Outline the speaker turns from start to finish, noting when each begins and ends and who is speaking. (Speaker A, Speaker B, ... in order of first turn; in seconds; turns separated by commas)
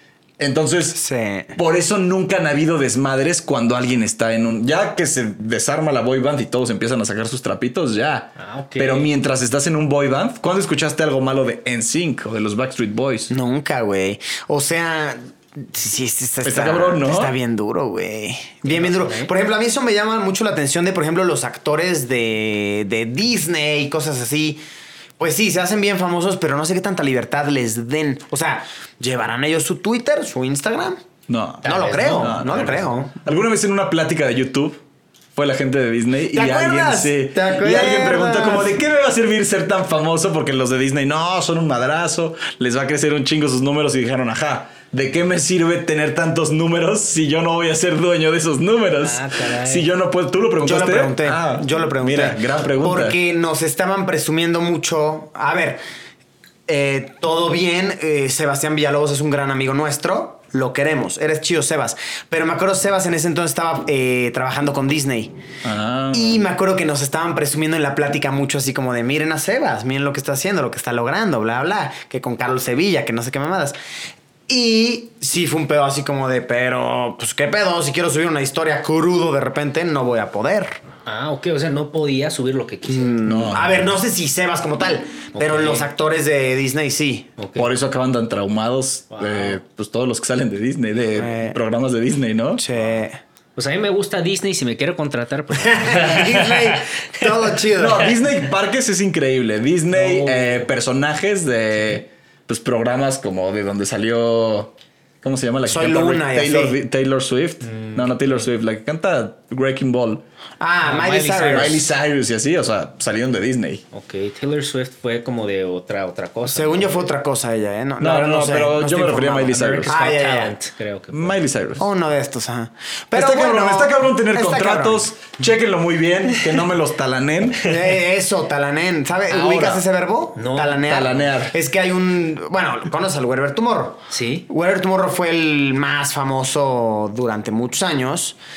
Speaker A: 0.4-1.0, Speaker B: 0.9-1.6, Speaker A: 1.6-13.3, Speaker C: 8.4-9.1, Speaker B: 13.3-24.6, Speaker A: 16.4-17.3, Speaker C: 18.6-19.3, Speaker B: 25.2-31.0, Speaker A: 31.3-34.8, Speaker C: 31.6-33.0, Speaker B: 31.6-33.1, Speaker A: 35.3-53.2, Speaker B: 36.3-38.7, Speaker C: 49.0-49.9, Speaker B: 50.6-55.8, Speaker B: 56.7-65.3, Speaker A: 65.6-66.4, Speaker B: 66.1-73.8, Speaker B: 74.5-80.8, Speaker C: 81.0-83.2, Speaker B: 82.9-87.3, Speaker A: 83.2-83.9, Speaker C: 85.3-85.9, Speaker C: 87.4-87.7, Speaker A: 87.5-92.6, Speaker C: 89.1-89.6, Speaker B: 91.1-91.6, Speaker B: 92.6-93.2, Speaker C: 93.5-97.3, Speaker B: 95.7-98.1, Speaker A: 97.8-110.2, Speaker C: 99.9-100.7, Speaker B: 105.7-106.8, Speaker C: 107.6-108.4, Speaker B: 110.6-111.8, Speaker C: 110.8-111.8, Speaker A: 111.5-113.8, Speaker C: 113.9-117.0, Speaker B: 116.5-120.5, Speaker A: 118.0-119.9, Speaker C: 119.5-121.4, Speaker A: 121.1-121.9, Speaker B: 121.8-125.1, Speaker A: 123.1-127.7, Speaker B: 127.6-138.4, Speaker A: 129.3-129.8, Speaker C: 130.3-131.2, Speaker A: 130.8-131.5, Speaker C: 134.1-134.4